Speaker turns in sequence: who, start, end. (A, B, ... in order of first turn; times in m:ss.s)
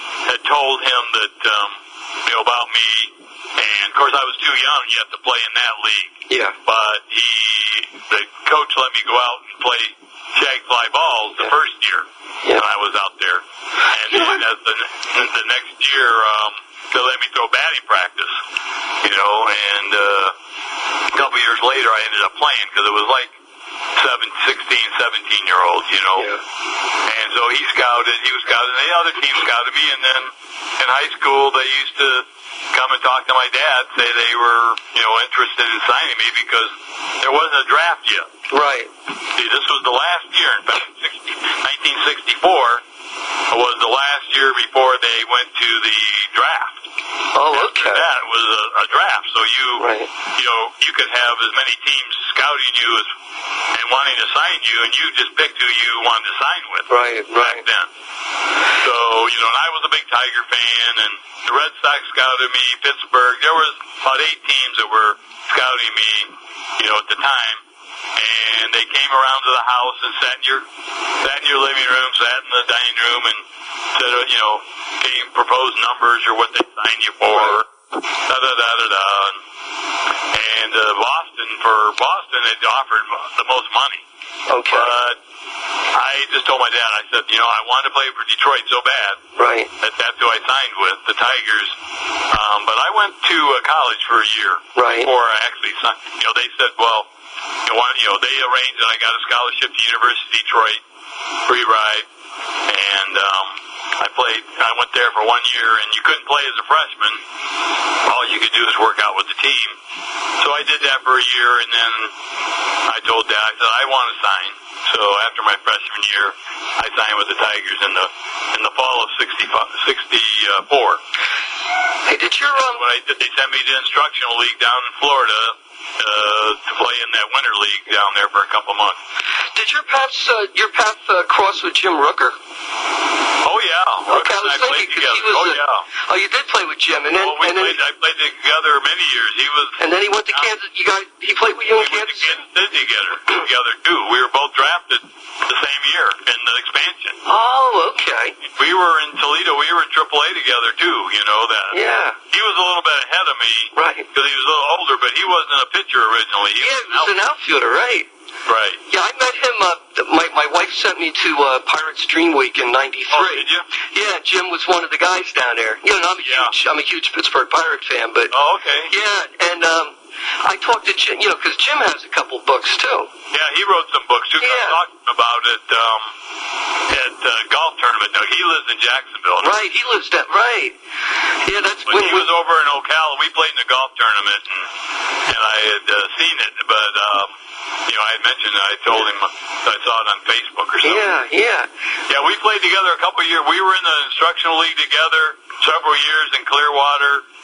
0:00.2-0:18.4 A
0:06.3-0:06.6 B
0:14.1-0:14.4 B
0:19.0-0:20.3 A
0:21.1-0:23.3 A
0:24.0-0:26.3 A
0:26.2-0:26.4 B
0:27.0-0:38.3 A
0:38.5-0:38.9 B
0:39.3-0:42.8 A
0:43.5-0:46.8 A
0:47.3-0:48.0 B
0:47.5-0:53.1 A
0:49.8-0:50.1 B
0:53.7-0:57.9 A
0:56.9-0:57.6 B
0:58.8-1:07.6 A
1:08.2-1:10.6 A
1:11.2-1:13.4 A
1:13.9-1:17.6 A
1:18.2-1:19.4 A
1:20.3-1:24.0 A
1:24.5-1:24.9 B
1:24.7-1:25.2 A
1:25.9-1:29.2 A
1:29.4-1:29.7 B
1:29.8-1:31.7 A
1:32.3-1:37.1 A
1:34.8-1:35.1 B
1:37.6-1:40.8 A
1:41.4-1:42.0 A
1:42.7-1:47.2 A
1:48.0-1:49.8 A
1:50.4-1:52.1 A
1:52.8-2:01.0 A
2:02.0-2:02.8 B
2:02.8-2:09.0 A
2:09.5-2:12.4 B
2:13.4-2:15.8 A
2:14.1-2:17.8 B
2:17.1-2:19.8 A
2:19.8-2:22.4 B
2:21.8-2:27.2 A
2:27.2-2:28.4 B
2:28.5-2:31.8 A
2:31.7-2:32.2 B
2:32.3-2:37.1 A
2:33.7-2:34.0 B
2:36.6-2:38.1 B
2:38.5-2:38.8 A
2:38.9-2:48.3 B
2:43.1-2:43.6 A
2:46.2-2:46.5 A
2:48.3-2:48.9 A
2:48.9-2:53.1 B
2:53.3-2:56.1 A
2:54.4-2:54.8 B
2:56.9-2:59.6 A
2:59.4-3:00.8 B
3:01.4-3:02.3 B
3:01.9-3:04.7 A
3:05.2-3:07.3 A
3:07.8-3:11.1 A
3:10.8-3:11.7 B
3:12.1-3:17.2 A